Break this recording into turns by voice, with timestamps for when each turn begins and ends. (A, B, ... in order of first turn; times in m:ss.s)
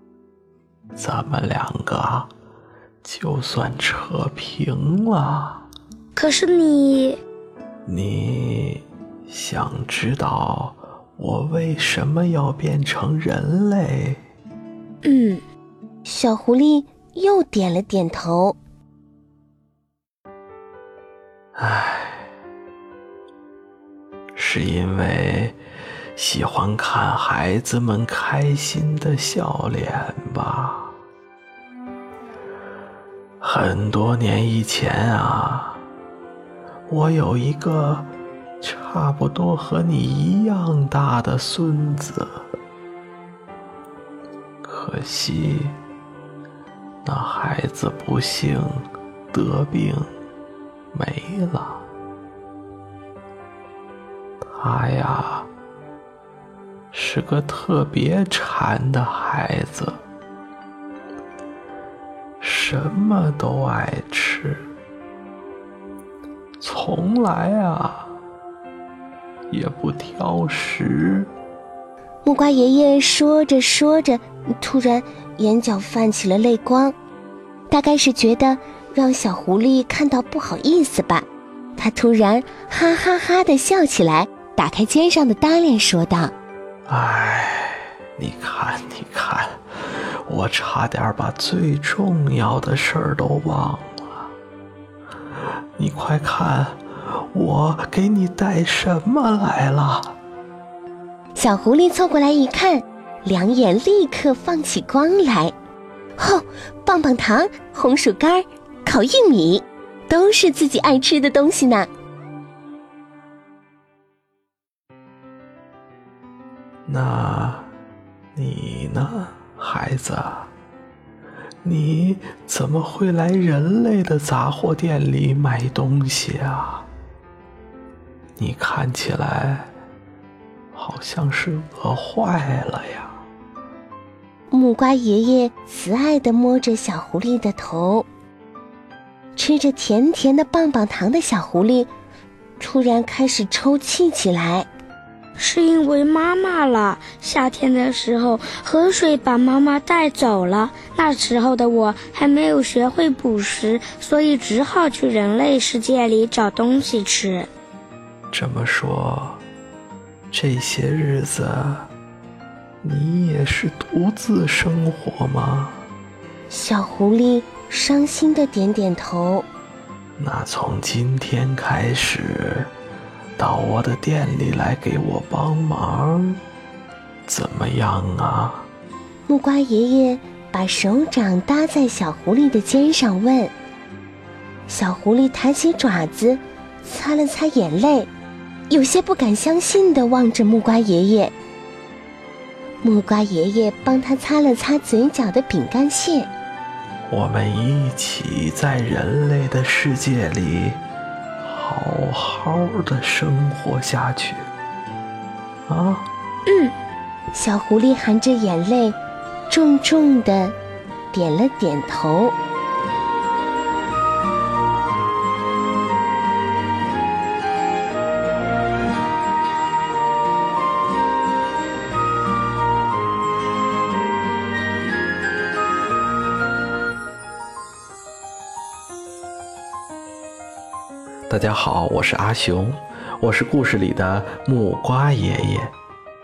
0:01.0-0:02.3 A
0:03.0-0:05.6 A
0:06.2-0:07.2 B
0:07.9-0:14.2 A
0:15.0-0:15.4 B
0:16.1-0:18.6 C
0:21.6-0:22.3 A
0:24.4-0:25.6 A
0:26.2-0:30.9 A
0:33.4-0:35.8 A
0:36.9-0:38.1 A
0:38.6-0:42.4 A
0:44.6-0:45.8 A
0:47.0-0:50.1 A
0:50.9-0:51.8 A
0:54.6-0:55.5 A
0:56.9-1:00.0 A
1:02.4-1:04.6 A
1:06.6-1:08.1 A
1:09.5-1:11.3 A
1:12.2-1:17.0 C
1:17.7-1:26.3 C
1:26.9-1:29.6 A
1:30.3-1:34.3 A
1:35.8-1:40.2 A
1:41.4-1:45.6 C
1:46.2-1:51.9 C
1:56.9-1:57.7 A
1:58.4-2:00.5 A
2:01.6-2:06.9 A
2:08.4-2:09.7 A
2:10.8-2:13.2 A
2:14.5-2:18.1 C
2:19.4-2:21.9 C
2:22.6-2:24.7 C
2:25.4-2:37.5 B
2:38.3-2:39.4 A
2:40.3-2:41.9 A
2:42.8-2:45.8 A
2:46.5-2:49.5 C
2:50.2-2:52.7 A
2:53.4-2:56.4 A
2:57.3-2:58.7 A
2:59.3-3:03.5 C
3:04.7-3:08.1 C
3:08.7-3:11.4 C
3:12.8-3:16.3 C
3:17.1-3:20.8 A
3:21.4-3:24.5 A
3:25.7-3:26.1 A
3:26.5-3:26.7 B
3:27.3-3:29.0 C
3:29.5-3:30.6 C
3:31.1-3:32.4 C
3:51.3-3:55.7 A